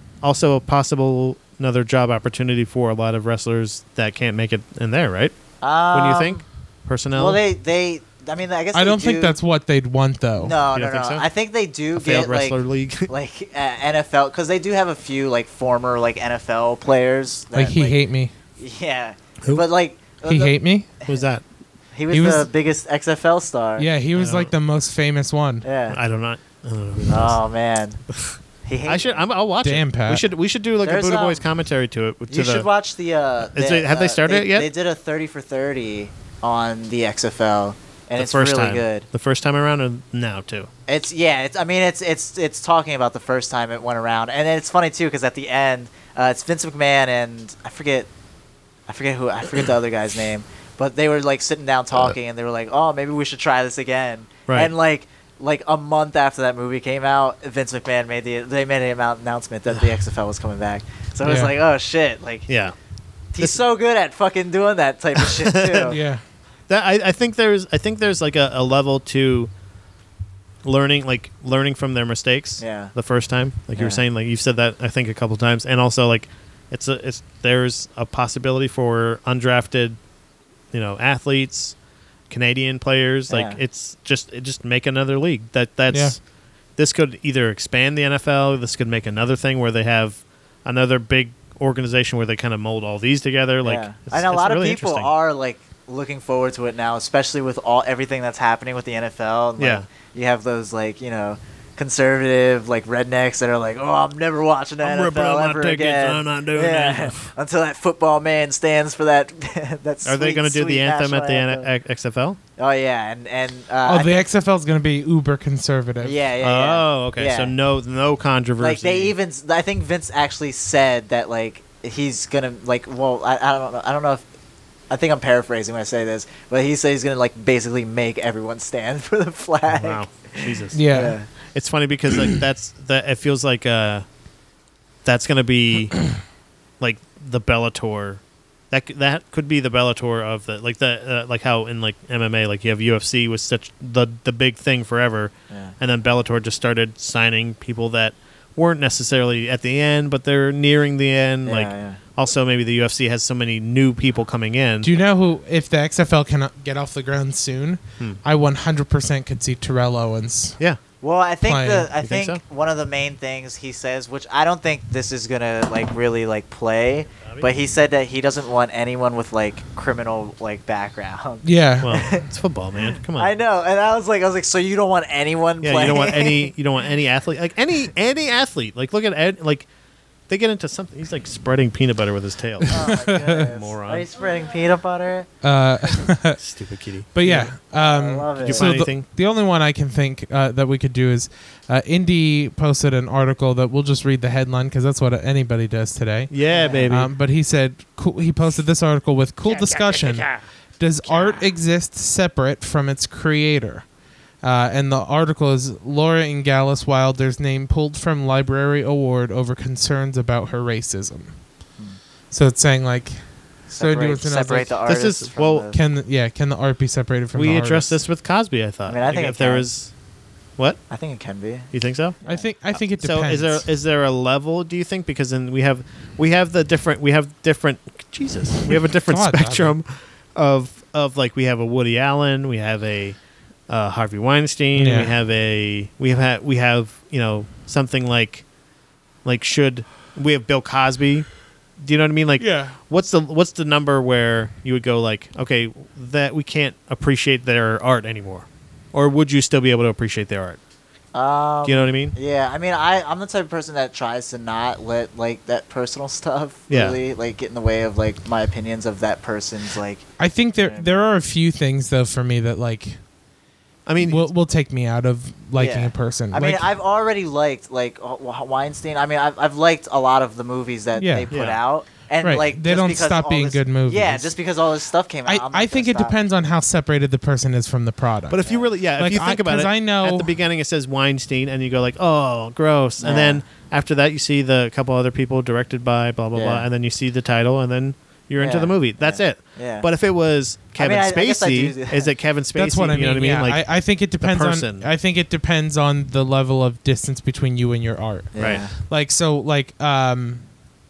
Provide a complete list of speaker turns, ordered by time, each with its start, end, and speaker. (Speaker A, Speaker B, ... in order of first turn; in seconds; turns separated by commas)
Speaker A: 0.2-5.4, Speaker B: 5.6-6.4, Speaker A: 5.9-7.4, Speaker B: 7.1-9.4, Speaker C: 8.7-10.6, Speaker B: 10.4-18.0, Speaker A: 10.8-11.2, Speaker A: 11.9-13.1, Speaker C: 17.5-18.3, Speaker B: 18.6-21.2, Speaker C: 20.2-20.9, Speaker A: 21.1-21.4, Speaker B: 21.9-23.9, Speaker C: 22.1-22.5, Speaker C: 23.8-25.7, Speaker A: 24.2-24.5, Speaker B: 25.6-26.0, Speaker A: 25.9-27.4, Speaker B: 27.1-28.0, Speaker A: 28.2-32.7, Speaker B: 28.6-29.3, Speaker C: 29.6-30.2, Speaker B: 30.8-31.4, Speaker B: 32.3-39.1, Speaker A: 33.5-34.7, Speaker A: 38.2-40.7, Speaker B: 40.9-48.1, Speaker B: 48.9-62.5, Speaker C: 61.2-61.5, Speaker A: 62.5-62.8, Speaker B: 63.3-66.0, Speaker A: 65.2-66.0, Speaker C: 65.8-66.2, Speaker A: 66.7-69.5, Speaker A: 70.6-80.0, Speaker B: 72.6-72.9, Speaker B: 73.7-74.0, Speaker A: 80.7-81.8, Speaker A: 82.3-86.2, Speaker B: 83.3-83.6, Speaker C: 85.9-86.2, Speaker A: 86.8-95.1, Speaker B: 93.6-111.7, Speaker A: 99.6-99.9, Speaker A: 104.8-107.3, Speaker A: 110.0-112.4, Speaker B: 112.6-114.2, Speaker C: 113.8-116.2, Speaker B: 116.0-117.5, Speaker A: 116.4-119.1, Speaker B: 118.6-124.2, Speaker B: 124.9-131.3, Speaker A: 129.7-134.1, Speaker C: 130.7-131.2, Speaker A: 135.0-136.2, Speaker A: 136.8-154.9, Speaker B: 145.5-145.8, Speaker B: 151.4-152.0, Speaker C: 154.8-160.6, Speaker B: 161.0-172.2, Speaker C: 161.4-161.9, Speaker A: 162.0-162.4, Speaker A: 167.2-167.5, Speaker C: 171.4-172.0, Speaker A: 171.8-173.3, Speaker B: 172.9-176.5, Speaker A: 175.6-179.7, Speaker A: 180.3-184.1, Speaker C: 182.6-183.5, Speaker B: 182.7-185.3, Speaker C: 185.4-186.4, Speaker A: 186.4-187.5, Speaker C: 187.1-203.9, Speaker B: 187.8-188.8, Speaker A: 188.4-189.1, Speaker A: 196.3-197.1, Speaker B: 196.5-196.9, Speaker B: 201.1-201.5, Speaker C: 204.4-211.4, Speaker C: 212.3-214.8, Speaker B: 213.7-215.8, Speaker A: 214.9-215.7, Speaker C: 215.7-217.9, Speaker A: 217.3-219.9, Speaker B: 218.9-219.7, Speaker B: 220.9-222.5, Speaker A: 221.7-222.2, Speaker C: 222.2-223.7, Speaker A: 222.7-238.5, Speaker C: 228.7-229.8, Speaker C: 234.8-235.1, Speaker A: 239.2-250.6, Speaker C: 242.4-242.8, Speaker B: 251.1-261.0, Speaker A: 251.7-252.1, Speaker A: 256.7-257.0, Speaker C: 260.2-263.0, Speaker A: 263.9-264.2, Speaker C: 264.0-266.7, Speaker B: 265.6-276.2, Speaker C: 270.9-271.3, Speaker A: 271.3-271.6, Speaker C: 272.2-274.3, Speaker C: 275.3-278.4, Speaker A: 278.3-294.9, Speaker B: 278.4-278.7, Speaker C: 279.0-280.3, Speaker B: 283.0-283.4, Speaker B: 286.3-286.7, Speaker B: 288.4-289.9, Speaker B: 290.8-292.1, Speaker C: 292.6-300.5, Speaker B: 298.3-298.7, Speaker A: 298.4-298.6